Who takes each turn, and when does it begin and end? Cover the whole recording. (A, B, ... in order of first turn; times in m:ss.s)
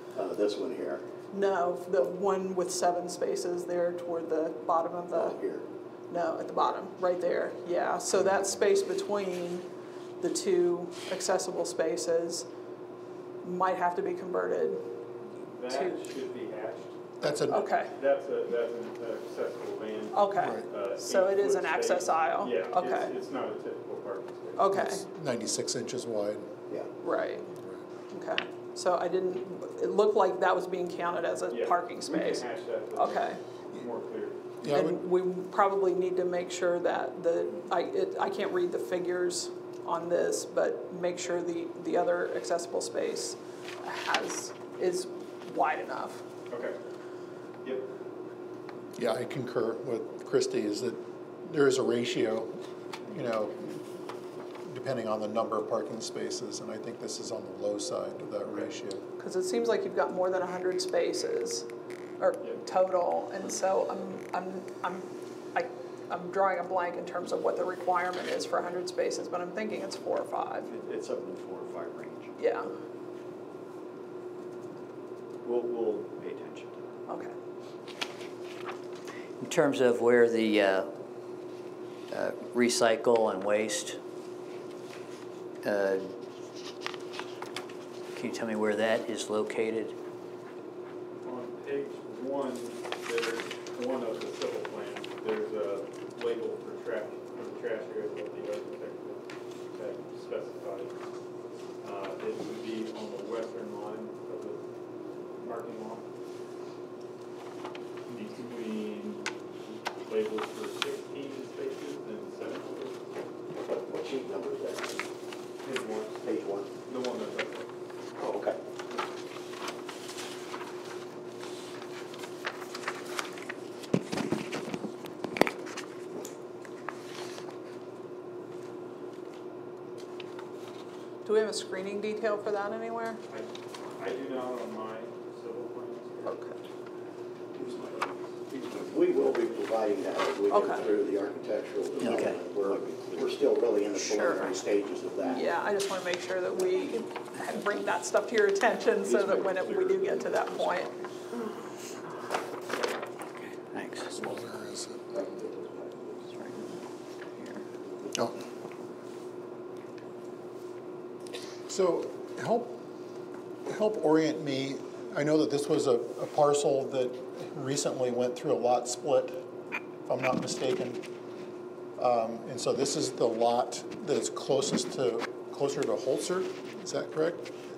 0:00.1-0:01.0 A
0:01.3-0:05.4 B
0:05.1-0:05.6 A
0:06.1-0:09.7 B
0:10.2-0:12.5 B
0:13.4-0:14.8 B
0:15.5-0:24.7 C
0:15.7-0:16.0 B
0:17.2-0:17.7 D
0:17.5-0:17.9 B
0:20.1-0:23.1 B
0:20.4-0:20.6 D
0:24.6-0:25.0 B
0:24.7-0:26.5 D
0:27.0-0:27.5 B
0:28.1-0:33.4 B
0:31.5-0:34.4 C
0:34.6-0:35.0 D
0:34.7-0:46.2 B
0:46.5-0:46.8 C
0:49.0-0:53.8 D
0:54.7-0:59.0 D
0:59.2-1:01.7 B
1:02.2-1:10.7 B
1:10.6-1:12.3 E
1:12.4-1:12.7 B
1:15.4-1:17.0 E
1:17.1-1:17.3 B
1:19.4-1:20.9 F
1:22.1-1:24.0 F
1:25.6-1:26.1 F
1:28.1-1:29.9 F
1:31.2-1:40.9 C
1:41.8-1:44.6 C
1:45.4-1:46.0 C
1:48.1-1:49.3 C
1:50.0-1:53.0 C
1:53.6-1:55.0 A
1:55.6-1:56.3 C
1:56.2-1:56.7 A
1:56.8-1:57.7 C
1:58.2-1:58.6 A
2:11.2-2:13.2 B
2:13.3-2:16.4 C
2:16.2-2:16.6 B
2:17.6-2:18.2 C
2:18.5-2:25.5 A
2:20.5-2:20.8 B
2:20.7-2:21.0 E
2:22.0-2:22.4 F
2:22.0-2:23.7 E
2:24.0-2:24.6 B
2:25.2-2:30.9 B
2:29.0-2:31.2 E
2:33.4-2:34.1 F
2:34.2-2:35.0 D
2:35.1-2:35.9 E
2:41.7-2:42.8 D
2:43.7-2:49.4 D
2:50.0-2:51.0 D
2:52.0-2:57.5 D